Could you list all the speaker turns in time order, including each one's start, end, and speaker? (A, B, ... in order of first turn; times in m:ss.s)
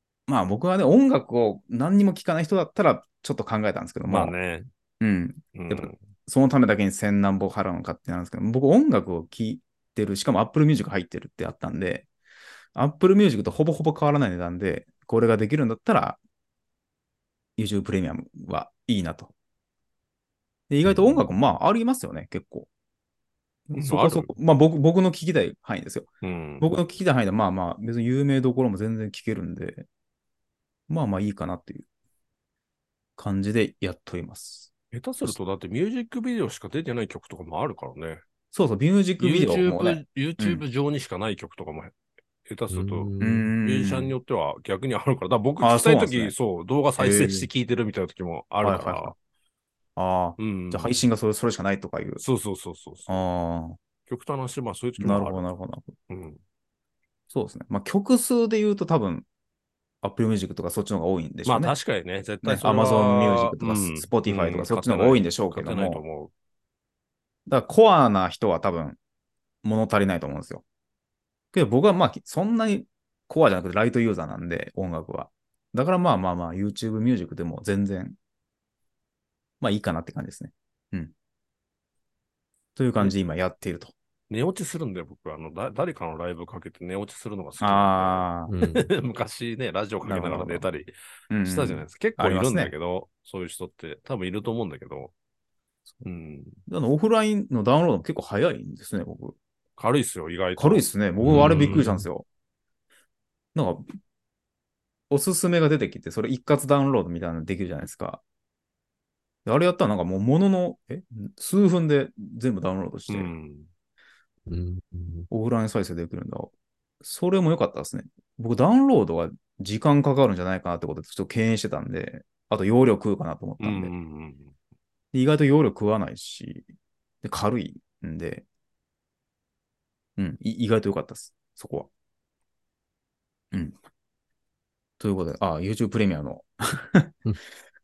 0:00.3-0:04.3 A
0:04.1-0:04.7 B
0:05.0-0:12.0 A
0:05.5-0:06.0 B
0:12.7-0:16.2 A
0:17.6-0:19.3 A
0:20.7-0:22.7 A
0:23.7-0:26.1 A
0:23.8-0:24.3 B
0:26.2-0:26.7 B
0:26.6-0:29.9 A
0:30.9-0:31.9 A
0:33.2-0:34.7 A
0:34.9-0:38.2 B
0:38.5-0:40.6 A
0:39.2-0:42.0 B
0:42.4-0:43.1 B
0:42.7-0:43.5 C
0:43.2-0:44.2 A
0:43.6-0:49.1 B
0:45.6-0:46.3 A
0:47.0-0:47.5 A
0:48.6-0:49.1 A
0:50.0-0:52.2 A
0:50.4-0:51.0 B
0:52.2-0:53.2 B
0:53.1-0:53.8 A
0:54.1-0:55.4 B
0:55.0-0:55.9 A
0:56.1-0:56.4 B
0:57.3-0:59.3 A
1:00.0-1:01.8 A
1:01.4-1:06.3 B
1:02.4-1:06.0 A
1:07.5-1:09.0 A
1:09.6-1:10.6 A
1:11.5-1:18.2 A
1:19.6-1:21.1 A
1:22.8-1:23.9 A
1:24.3-1:30.9 B
1:27.6-1:28.5 A
1:28.5-1:28.9 C
1:30.0-1:30.7 A
1:31.3-1:32.7 A
1:31.4-1:35.1 B
1:36.0-1:36.6 B
1:36.6-1:39.4 A
1:39.8-1:41.9 B
1:40.6-1:42.3 A
1:41.2-1:42.0 C
1:43.6-1:43.9 A
1:45.1-1:48.2 A
1:49.4-1:53.3 A
1:53.1-1:53.7 B
1:54.5-1:55.3 C
1:55.3-1:56.5 A
1:57.0-2:03.9 A
2:03.6-2:04.5 B
2:05.1-2:06.7 A
2:07.2-2:08.4 A
2:10.2-2:11.9 A
2:13.5-2:13.8 A
2:15.0-2:17.2 A